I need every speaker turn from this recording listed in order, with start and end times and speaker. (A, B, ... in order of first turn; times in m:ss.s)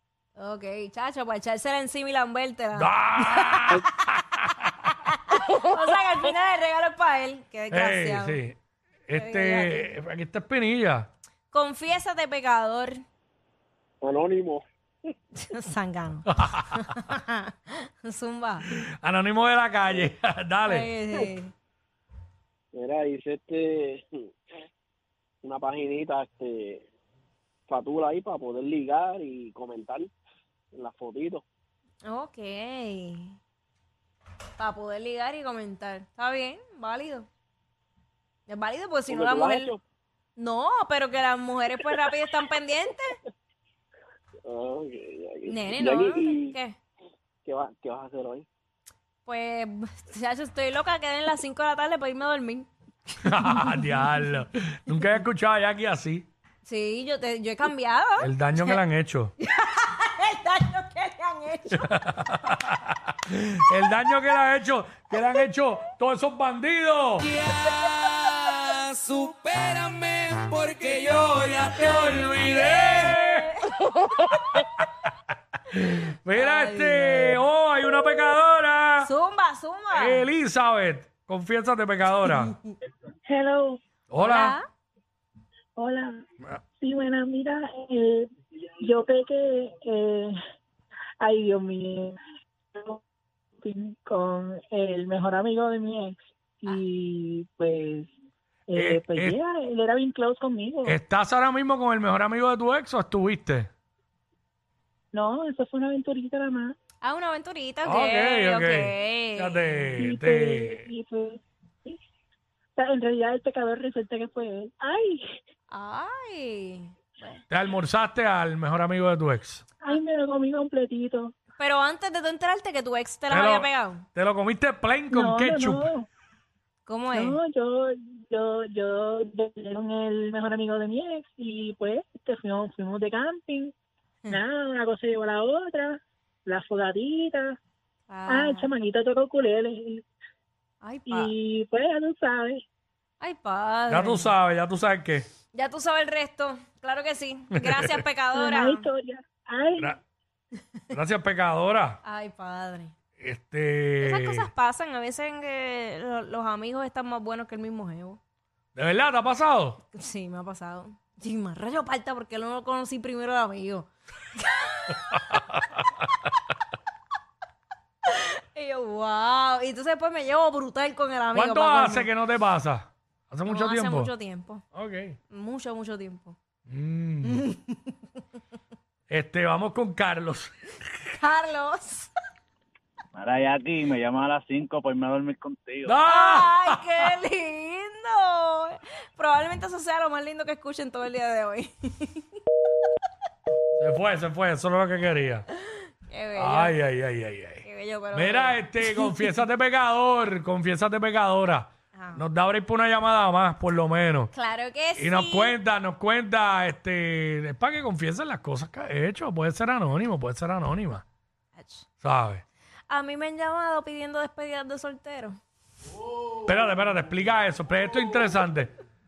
0:00.4-0:03.6 A
0:02.7-0:05.0 B
0:05.2-0:08.4 A
0:07.7-0:11.1 B
0:09.2-0:09.8 A
0:11.5-0:13.0 A
0:14.0-0:14.6 C
0:15.3-0:18.7 A
0:16.3-0:17.0 B
0:18.6-0:20.9 B
0:20.7-0:21.5 A
0:22.7-0:24.2 C
0:25.4-0:26.8 C
0:27.7-0:30.1 C
0:30.7-0:31.4 C
0:32.0-0:33.4 A
0:34.6-0:37.3 A
0:38.5-0:39.7 A
0:39.1-0:39.8 C
0:40.4-0:43.2 A
0:44.5-0:46.6 C
0:45.5-0:46.8 A
0:47.4-0:48.5 C
0:49.3-0:53.2 A
0:53.2-0:56.3 B
0:56.6-0:58.8 A
0:58.2-0:59.3 B
0:59.4-1:01.8 A
1:01.7-1:07.3 B
1:07.4-1:12.8 D
1:12.2-1:13.5 B
1:12.9-1:13.7 A
1:15.7-1:19.1 B
1:16.4-1:17.2 A
1:19.0-1:20.2 A
1:19.9-1:22.6 B
1:23.3-1:23.8 E
1:24.1-1:24.6 B
1:24.2-1:24.7 A
1:25.8-1:26.2 E
1:26.8-1:28.3 E
1:28.8-1:30.3 E
1:31.2-1:32.2 E
1:32.7-1:33.0 E
1:33.6-1:38.1 E
1:38.7-1:41.0 E
1:38.8-1:39.4 B
1:40.8-1:43.7 B
1:45.1-1:46.8 E
1:47.0-1:49.9 A
1:47.8-1:50.9 B
1:50.0-1:52.0 E
1:52.8-1:55.2 E
1:55.7-1:57.4 A
1:57.5-1:59.6 B
1:59.8-2:01.3 E
2:01.6-2:04.0 A
2:03.3-2:05.9 B
2:05.1-2:06.1 E
2:06.8-2:07.4 A
2:07.1-2:13.7 E
2:14.3-2:17.5 E
2:18.1-2:18.7 A
2:18.3-2:20.0 E
2:20.8-2:21.3 A
2:21.1-2:22.6 E
2:23.2-2:24.3 A
2:23.9-2:25.3 B
2:25.5-2:28.9 A
2:27.5-2:28.0 B
2:28.3-2:29.9 E
2:30.9-2:32.0 B
2:32.0-2:32.9 A
2:33.2-2:34.5 B
2:34.0-2:38.2 A
2:38.8-2:39.8 B
2:39.9-2:45.0 A
2:44.9-2:45.8 B
2:48.0-2:52.1 A
2:51.3-2:54.1 B
2:53.5-2:54.6 A
2:54.7-2:55.2 B
2:55.3-2:56.4 A
2:56.7-2:57.5 B
2:57.4-2:58.0 A
2:59.1-3:01.2 B
3:01.2-3:02.1 A
3:03.1-3:06.0 F
3:05.8-3:07.1 B
3:06.0-3:12.4 A
3:13.8-3:15.5 B
3:15.6-3:16.7 A
3:16.4-3:24.3 B
3:17.6-3:18.9 A
3:21.9-3:22.2 A
3:24.3-3:25.5 A
3:25.0-3:31.0 B
3:31.5-3:31.9 A
3:32.0-3:32.4 B
3:32.9-3:35.4 A
3:36.4-3:38.7 B